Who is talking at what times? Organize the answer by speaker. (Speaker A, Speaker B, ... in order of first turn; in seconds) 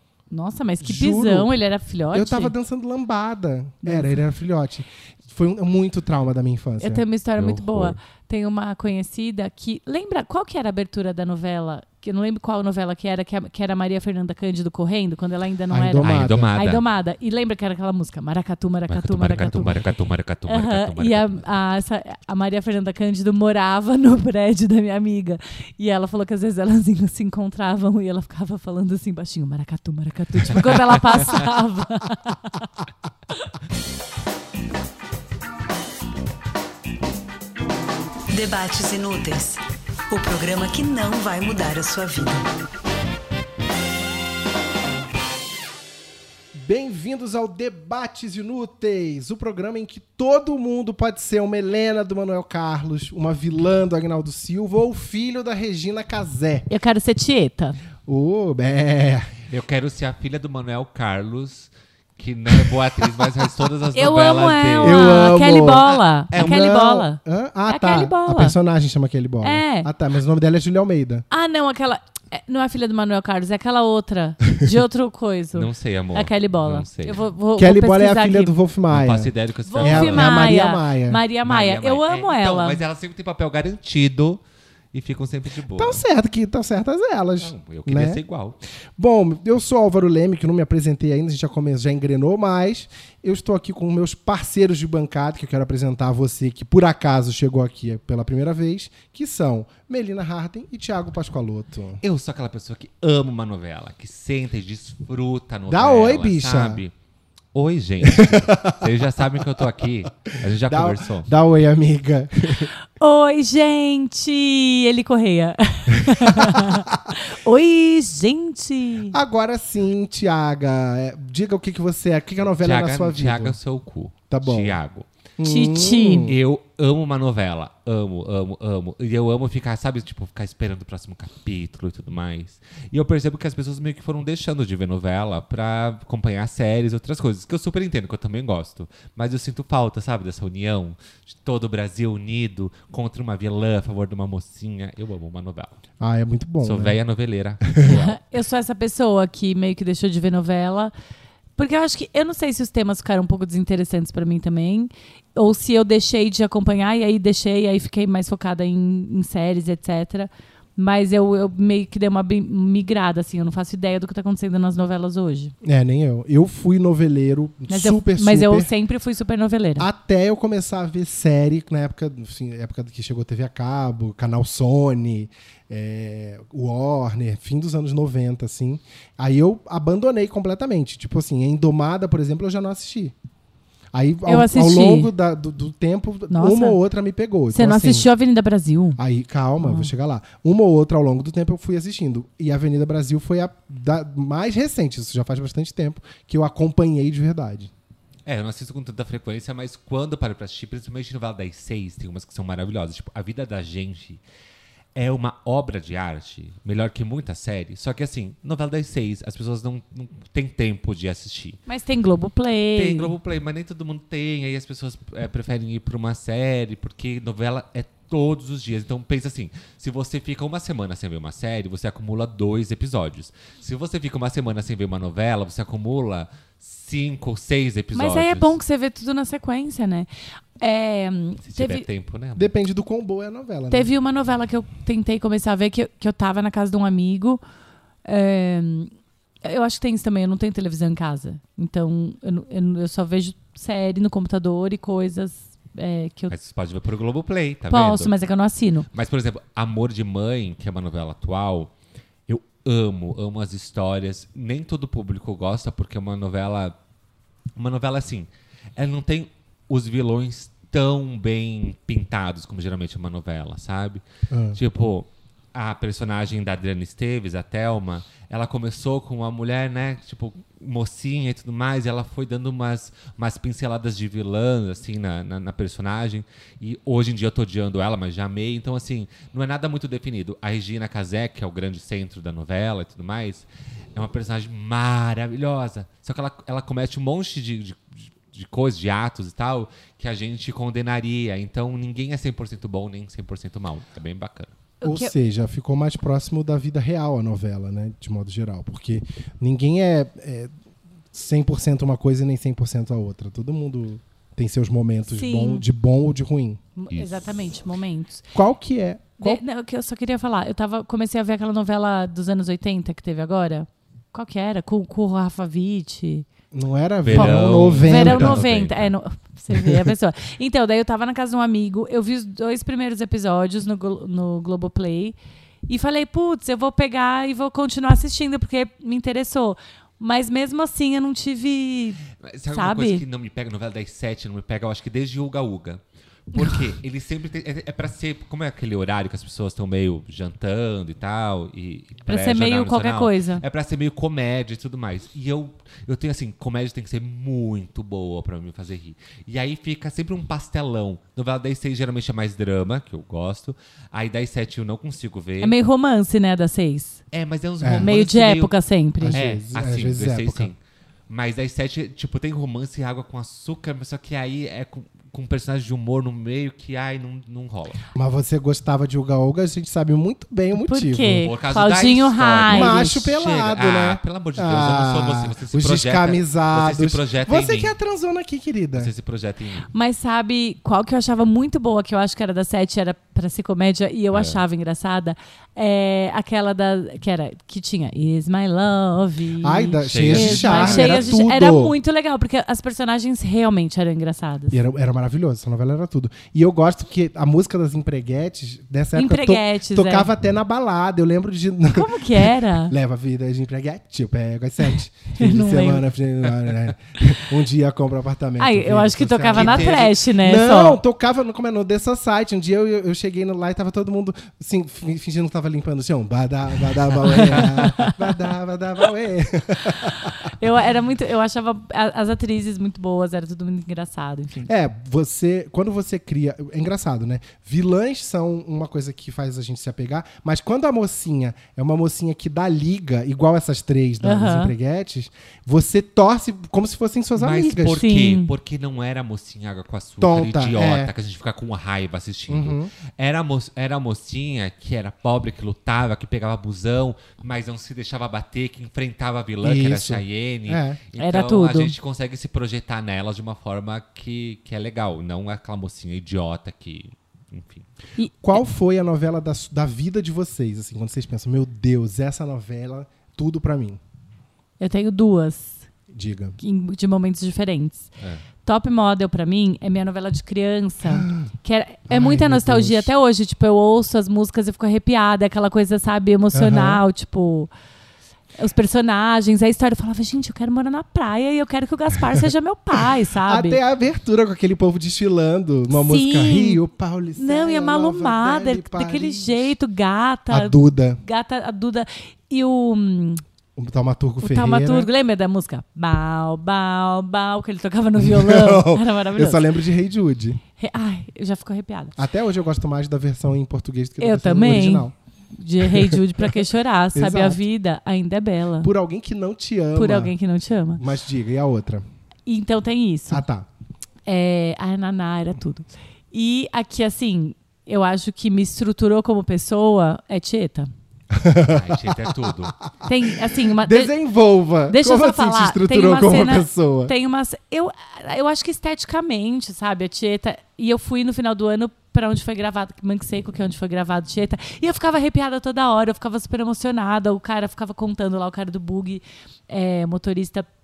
Speaker A: 0.3-2.5, 6.8-19.8, 20.5-32.7, 56.7-57.8, 64.0-68.5, 69.4-69.9, 71.3-78.5, 79.7-82.8, 113.0-119.2, 125.4-126.3, 147.8-150.9, 151.6-165.5, 167.7-169.9, 184.3-185.1, 186.3-186.8, 187.5-189.0, 189.6-189.9, 211.7-213.1, 227.9-230.1, 230.6-231.8, 233.7-237.4, 238.1-238.9, 239.4-246.3, 247.7-248.9, 294.8-295.1, 305.1-305.6, 306.8-308.2, 309.2-316.3, 317.1-325.2, 325.7-332.0, 332.5-333.0, 342.1-343.4, 355.4-357.0, 357.8-359.2, 370.6-373.1, 379.7-394.6, 398.9-400.1, 401.7-402.7, 405.2-405.8, 408.4-410.8, 417.1-418.1, 420.0-424.5, 434.0-434.5, 437.8-438.3, 451.0-451.7, 458.0-458.4, 464.6-465.7, 466.4-467.9, 468.4-477.5, 478.4-483.6, 485.7-486.6, 487.2-493.2, 494.2-499.5, 500.6-502.0, 504.0-508.7, 509.8-510.8, 512.3-513.2, 514.1-520.7, 522.9-523.9, 524.7-540.5
Speaker B: 0.8-1.5, 2.1-7.0, 15.7-16.5, 46.5-56.7, 58.0-59.4, 64.8-71.2, 77.6-81.2, 85.8-88.2, 89.0-102.0, 105.7-106.8, 108.0-108.9, 110.6-112.7, 115.9-117.0, 119.1-123.6, 124.3-124.8, 125.4-126.4, 146.0-147.0, 147.6-148.0, 165.6-168.7, 169.8-183.2, 183.9-188.1, 189.0-197.7, 232.4-233.9, 264.3-264.6, 294.8-300.5, 301.1-306.6, 308.3-309.4, 316.5-318.4, 319.5-319.9, 357.6-357.9, 359.0-360.5, 367.9-371.3, 372.5-378.9, 389.4-391.8, 394.5-420.1, 424.5-437.8, 440.0-440.9, 442.3-442.7, 449.4-450.8, 458.2-463.8, 465.9-466.4, 470.9-471.3, 471.9-472.9, 476.3-476.8, 483.2-489.6, 490.3-491.0, 493.6-494.9, 498.0-500.4, 502.0-504.9, 505.6-507.4, 508.6-510.1, 510.8-511.9, 513.1-513.5, 521.1-522.3, 523.6-526.9
Speaker C: 7.4-8.0, 16.0-16.8, 18.9-21.4, 30.8-31.4, 59.5-66.6, 75.5-77.2, 78.9-80.5, 81.4-84.4, 84.9-86.0, 87.4-88.6, 102.0-106.9, 107.5-111.3, 122.6-125.1, 126.2-145.8, 146.6-148.2, 198.2-204.2, 204.9-211.6, 212.8-228.6, 231.4-232.5, 246.3-248.1, 248.9-251.7, 252.3-256.8, 257.6-294.5, 317.0-318.9, 332.2-355.5, 357.1-358.5, 359.1-360.6, 361.1-367.8, 371.2-377.7, 378.8-379.7, 384.1-384.4, 389.9-391.2, 409.3-409.9, 417.1-417.4, 437.2-457.7, 521.5-522.6
Speaker D: 38.3-42.5